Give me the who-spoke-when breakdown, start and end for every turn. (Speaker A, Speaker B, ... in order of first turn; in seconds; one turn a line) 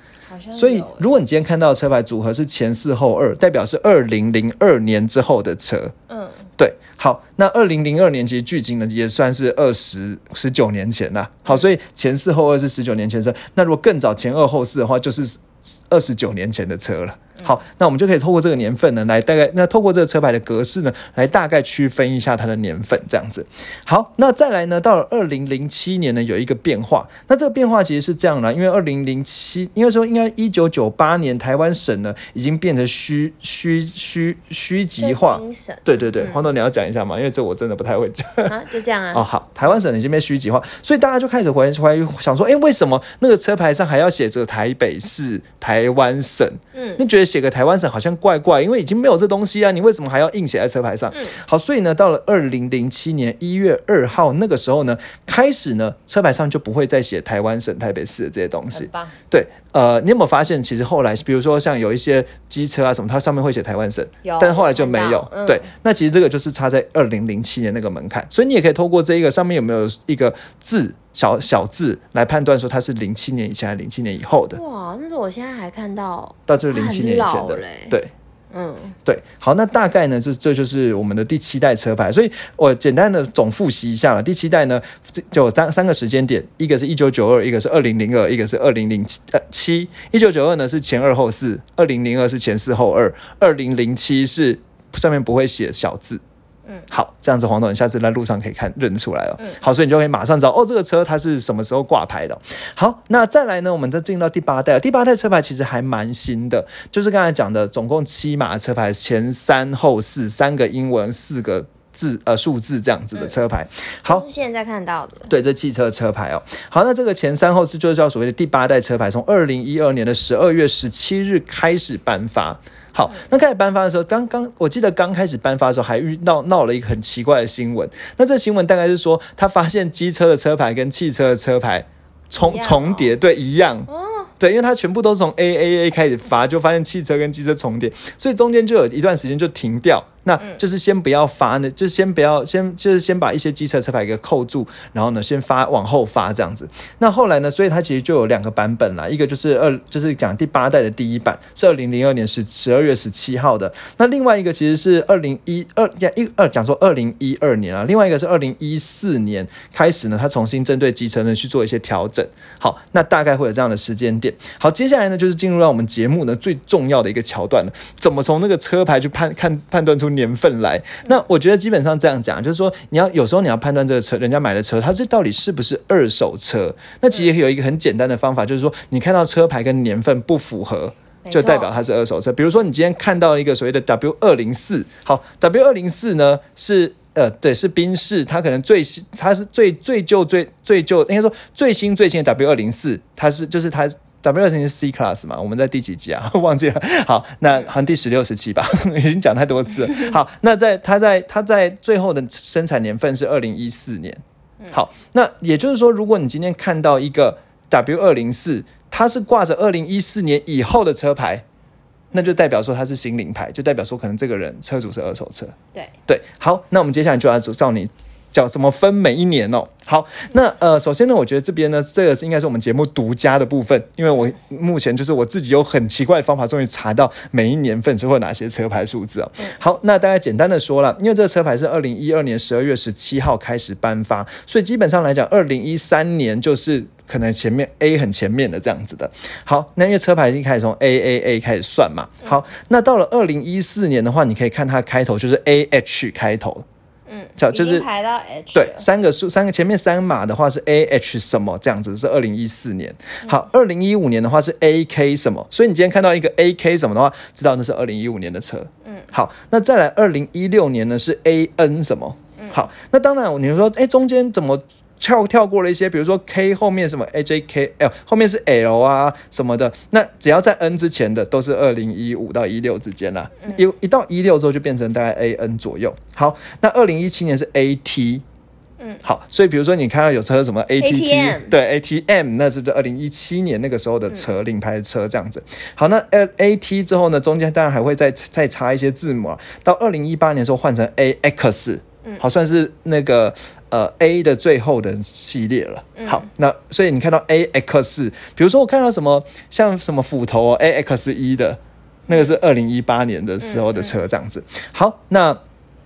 Speaker A: 0.3-1.1
Speaker B: 0.6-5.9
Speaker A: 6.1-6.5
Speaker B: 6.6-38.5
Speaker A: 35.0-36.4
Speaker A: 38.4-39.3
Speaker B: 39.1-74.6
Speaker A: 46.7-47.0
Speaker A: 58.7-59.1
Speaker A: 64.2-65.7
Speaker A: 74.5-77.9
Speaker B: 76.5-78.1
Speaker A: 78.5-79.0
Speaker B: 79.0-96.2
Speaker B: 96.9-114.2
Speaker A: 114.0-115.3
Speaker B: 115.3-211.4
Speaker A: 132.4-133.1
Speaker A: 133.9-134.3
Speaker A: 181.2-181.7
Speaker A: 199.9-200.1
Speaker B: 212.1-215.6
Speaker B: 216.1-246.6
Speaker A: 247.1-248.8
Speaker B: 247.4-247.8
Speaker B: 248.5-278.2
Speaker B: 279.0-305.4
Speaker A: 280.8-281.5
Speaker A: 296.0-296.3
Speaker A: 302.1-302.3
Speaker A: 303.4-303.9